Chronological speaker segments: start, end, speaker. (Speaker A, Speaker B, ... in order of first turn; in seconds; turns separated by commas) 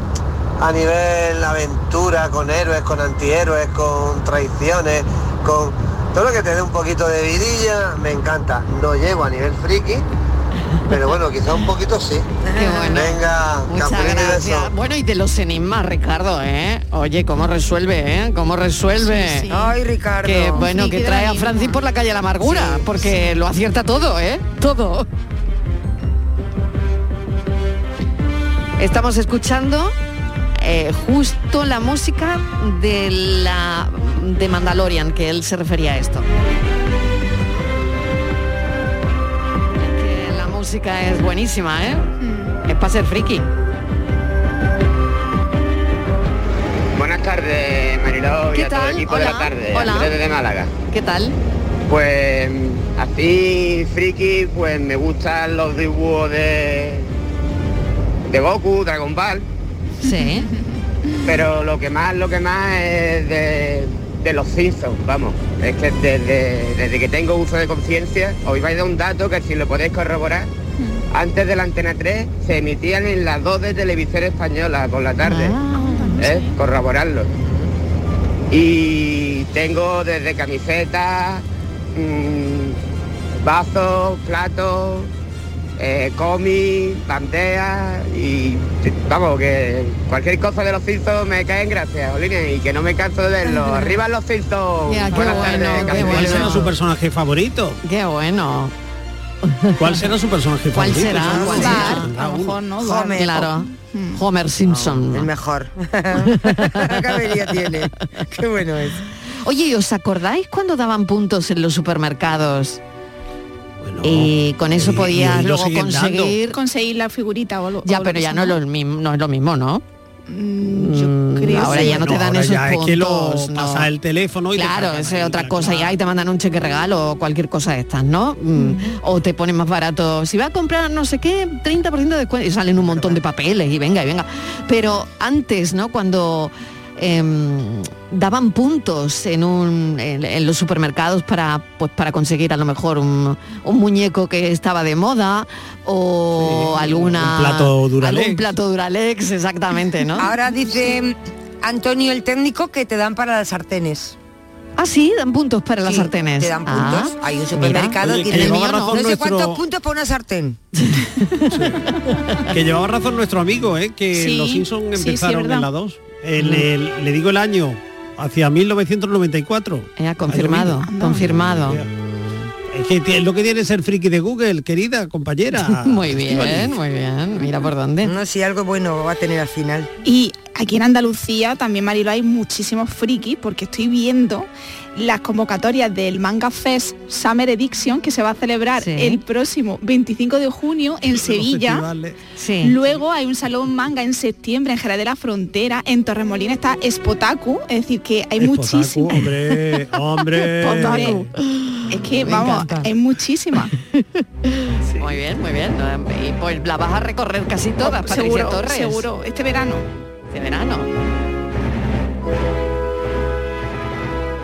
Speaker A: 0.6-10.1, Speaker A: 10.9-12.3, Speaker B: 12.4-12.9, Speaker C: 12.6-19.5, Speaker A: 12.9-14.7, Speaker D: 19.0-19.8, Speaker B: 19.5-20.7, Speaker C: 20.2-25.1, Speaker D: 20.6-21.8, Speaker B: 22.5-22.8, Speaker D: 23.0-23.4, Speaker C: 28.8-29.9, Speaker C: 30.6-36.3, Speaker C: 39.8-42.0, Speaker D: 42.2-42.5, Speaker C: 42.6-43.5, Speaker E: 47.0-50.7, Speaker C: 48.5-50.2, Speaker C: 50.9-51.4, Speaker E: 51.9-57.1, Speaker E: 58.3-59.5, Speaker C: 60.0-60.5, Speaker D: 60.1-60.5, Speaker E: 61.2-70.5, Speaker E: 71.1-75.5, Speaker C: 75.2-76.2, Speaker D: 75.7-76.5, Speaker E: 76.2-77.3, Speaker E: 78.5-81.4, Speaker E: 82.0-82.8, Speaker E: 83.4-85.1, Speaker E: 85.8-96.6, Speaker C: 94.9-96.7, Speaker F: 95.2-97.8, Speaker C: 97.8-98.7, Speaker C: 99.5-100.0, Speaker F: 99.8-102.6, Speaker C: 100.7-102.1, Speaker B: 101.1-101.9, Speaker D: 101.5-104.2, Speaker B: 102.8-103.5, Speaker C: 103.1-105.3, Speaker B: 104.7-109.0, Speaker C: 106.5-106.9, Speaker C: 109.4-112.8, Speaker F: 113.8-116.4, Speaker C: 114.0-116.6, Speaker D: 116.5-118.6, Speaker C: 117.8-119.8, Speaker D: 120.3-122.1, Speaker C: 120.6-123.9, Speaker F: 121.5-126.0, Speaker C: 124.5-150.3, Speaker F: 146.4-148.4, Speaker B: 150.2-154.2, Speaker C: 154.8-159.1, Speaker B: 155.8-160.6, Speaker F: 158.0-159.6, Speaker C: 160.7-161.6, Speaker F: 161.5-161.8, Speaker F: 162.5-171.9, Speaker D: 164.1-165.7, Speaker C: 166.4-166.7, Speaker C: 170.0-171.8, Speaker D: 170.9-171.3, Speaker F: 172.7-176.8, Speaker C: 175.7-178.1, Speaker B: 178.0-179.9, Speaker D: 180.1-191.9, Speaker C: 188.8-189.2, Speaker F: 191.1-192.2, Speaker C: 192.4-192.7, Speaker D: 192.6-199.2, Speaker F: 198.4-201.3, Speaker D: 200.6-201.3, Speaker C: 200.7-202.9, Speaker D: 201.9-203.8, Speaker C: 204.4-209.1, Speaker D: 207.8-209.8, Speaker C: 210.3-210.9